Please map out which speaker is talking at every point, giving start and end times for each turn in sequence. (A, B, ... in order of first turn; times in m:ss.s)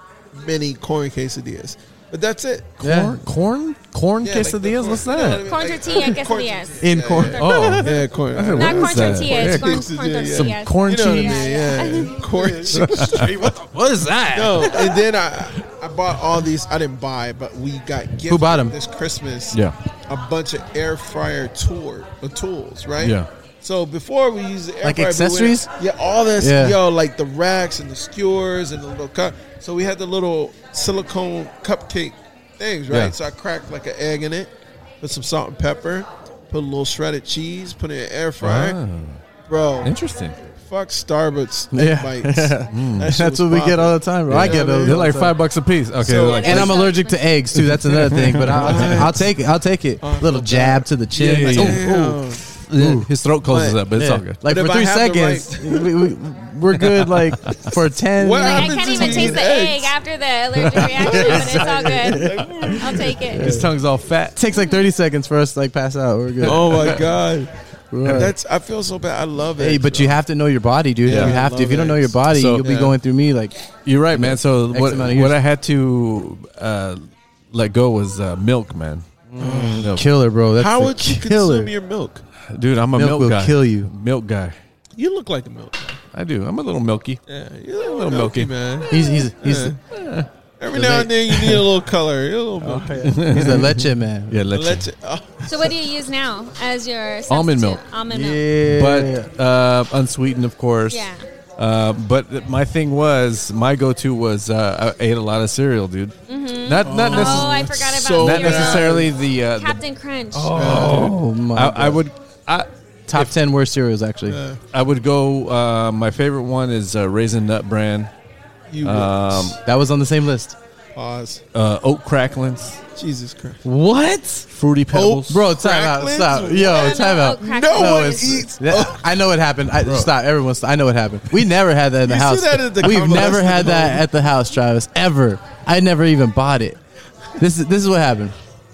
0:00.3-0:02.7 A
0:02.8-0:05.4 B
0:02.8-0:03.2 C
0:04.2-0:13.4 A
0:05.4-0:08.0 D
0:06.8-0:07.9 C
0:07.4-0:11.5 B
0:08.5-0:12.2 D
0:12.3-0:15.0 C
0:12.7-0:13.5 B
0:14.3-0:38.8 A
0:18.3-0:18.7 C
0:23.0-0:23.3 B
0:24.8-0:25.7 C
0:26.4-0:26.8 C
0:38.4-0:39.2 B
0:39.5-0:39.9 A
0:39.8-0:40.4 B
0:40.5-0:45.0 A
0:41.7-0:45.4 C
0:42.7-0:43.1 B
0:44.3-0:46.8 B
0:46.0-0:46.7 A
0:46.1-0:47.3 D
0:46.2-0:52.2 C
0:47.5-0:49.2 B
0:48.4-0:49.3 A
0:50.0-0:50.9 A
0:51.1-0:54.4 B
0:51.4-0:52.4 A
0:52.8-0:53.1 C
0:53.4-0:53.8 A
0:53.9-0:59.4 C
0:54.4-0:56.1 A
0:56.8-0:57.7 B
0:58.2-0:59.9 A
0:58.4-1:03.6 D
1:00.6-1:01.5 B
1:00.7-1:03.3 A
1:01.1-1:03.7 C
1:03.2-1:04.4 B
1:04.4-1:07.0 C
1:06.4-1:07.0 B
1:06.4-1:10.2 A
1:07.9-1:08.3 C
1:09.6-1:15.4 C
1:11.0-1:13.0 A
1:11.0-1:11.4 B
1:12.3-1:12.7 B
1:13.8-1:19.0 B
1:19.3-1:21.7 C
1:19.4-1:19.9 A
1:19.8-1:20.1 B
1:20.5-1:22.2 A
1:22.5-1:24.6 B
1:23.0-1:23.9 C
1:25.0-1:26.0 A
1:26.1-1:27.2 B
1:27.3-1:29.8 A
1:27.8-1:29.2 B
1:28.9-1:29.8 C
1:29.9-1:30.3 B
1:30.6-1:33.1 A
1:30.7-1:31.1 C
1:31.3-1:31.6 B
1:32.6-1:34.4 C
1:33.0-1:34.9 B
1:34.5-1:35.8 A
1:35.4-1:38.4 D
1:37.3-1:37.8 B
1:38.1-1:39.3 C
1:38.7-1:47.6 B
1:40.9-1:41.2 D
1:46.3-1:50.6 D
1:46.8-1:49.1 A
1:48.1-1:49.8 B
1:50.3-1:53.4 B
1:50.5-1:51.1 A
1:50.6-1:52.0 C
1:53.1-1:54.4 C
1:54.3-1:54.6 A
1:54.7-1:58.1 B
1:58.7-1:59.6 A
1:58.8-1:59.6 B
1:59.6-2:00.6 C
2:00.9-2:01.4 A
2:01.5-2:02.8 B
2:02.9-2:03.6 A
2:03.6-2:04.5 C
2:04.5-2:05.4 B
2:04.9-2:09.0 A
2:05.3-2:16.8 C
2:06.6-2:08.4 D
2:12.0-2:14.0 A
2:17.4-2:18.3 C